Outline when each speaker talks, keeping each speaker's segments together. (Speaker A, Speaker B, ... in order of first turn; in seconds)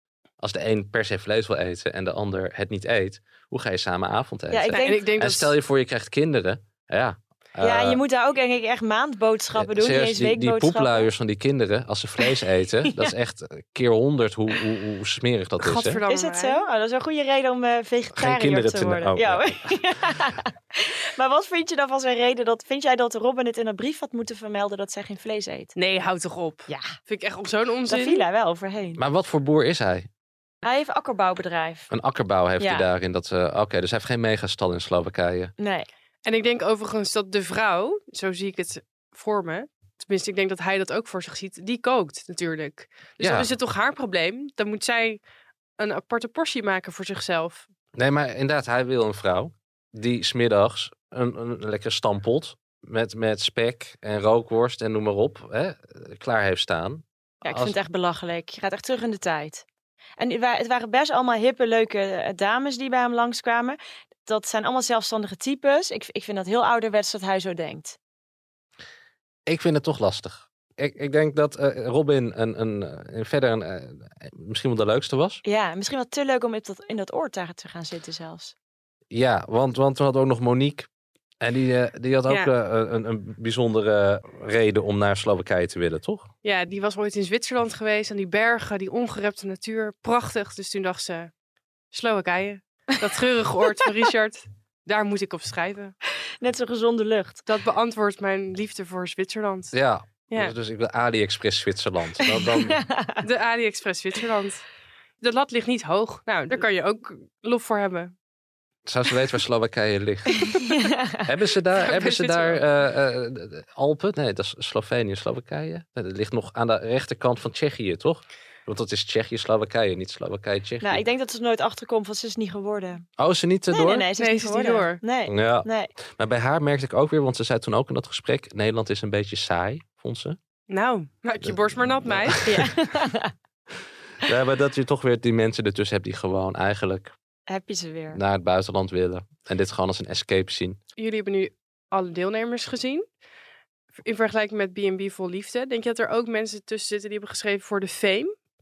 Speaker A: 0.4-8.0, 9.5-16.0, 18.1-19.7, 29.0-30.1, 31.9-35.5, 43.2-43.5, 47.9-57.7, 69.5-75.4, 79.1-80.9, 81.4-86.3, 99.7-102.8, 108.8-110.5, 111.2-121.0, 123.2-124.1, 125.3-130.4, 131.4-132.7, 134.2-137.1, 138.1-140.8
Speaker B: 4.5-5.0, 7.6-11.1, 16.1-25.7, 26.7-26.9, 27.9-29.0, 30.6-31.9, 32.6-32.9, 35.6-35.9, 57.4-59.6, 60.2-68.0, 75.4-78.5, 96.4-97.4, 102.2-103.2, 110.5-111.2, 120.8-123.0, 123.7-125.9, 132.4-133.3, 137.5-138.2
Speaker C: 4.7-5.5, 15.6-16.6, 25.7-28.2, 36.2-45.2, 45.8-47.7, 86.4-91.3, 91.9-95.9, 97.5-99.7, 100.3-100.5, 103.2-104.6, 105.2-108.1, 111.8-112.6, 124.2-125.0, 130.7-132.4, 141.0-143.1, 144.0-148.3